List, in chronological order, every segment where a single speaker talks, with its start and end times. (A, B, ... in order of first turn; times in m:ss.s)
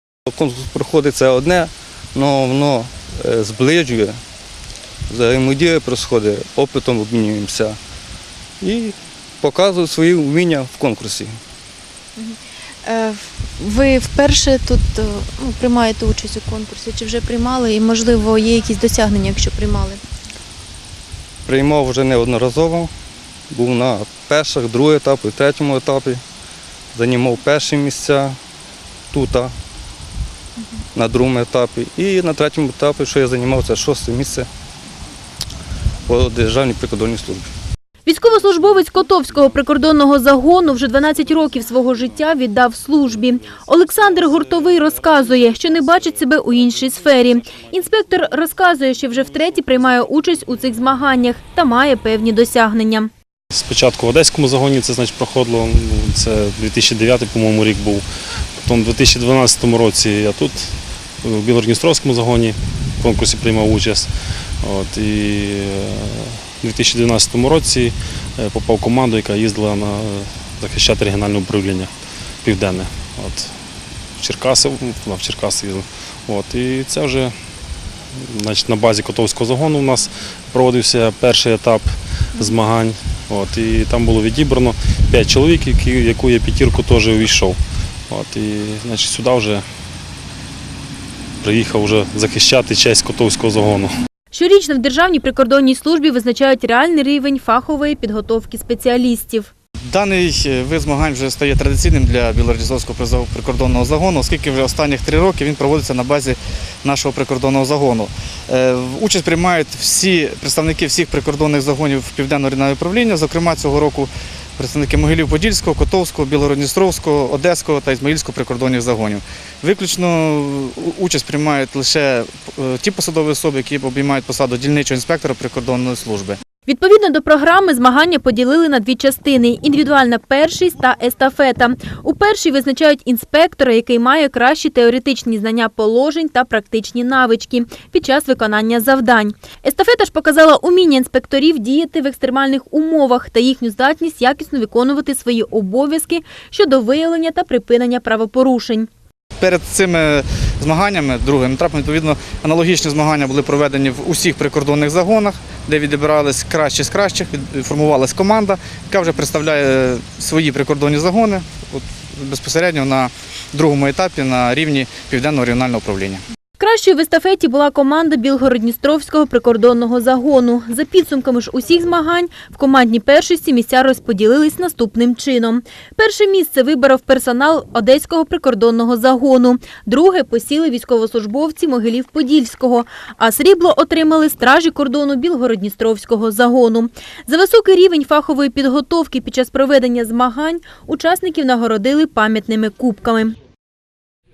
0:00.3-0:04.2 A
0:05.1-0:07.8 A
0:08.6-0:11.4 A
0:12.2-0:20.0 B
0:21.4-0:22.9 A
0:23.5-0:26.2 A
0:26.9-0:28.4 A
0:29.1-0:29.5 A
0:30.9-0:34.5 A
0:36.1-0:37.5 A
0:38.0-0:53.1 C
0:53.5-0:58.0 D
0:58.6-1:00.7 D
1:01.2-1:04.1 D
1:04.6-1:11.9 D
1:12.4-1:13.5 D
1:14.2-1:17.3 D
1:18.1-1:27.6 D
1:28.1-1:29.6 D
1:31.4-1:33.9 D
1:34.3-1:39.5 C
1:39.9-2:06.4 E
2:06.6-2:28.9 C
2:29.4-2:46.2 E
2:46.6-3:13.3 C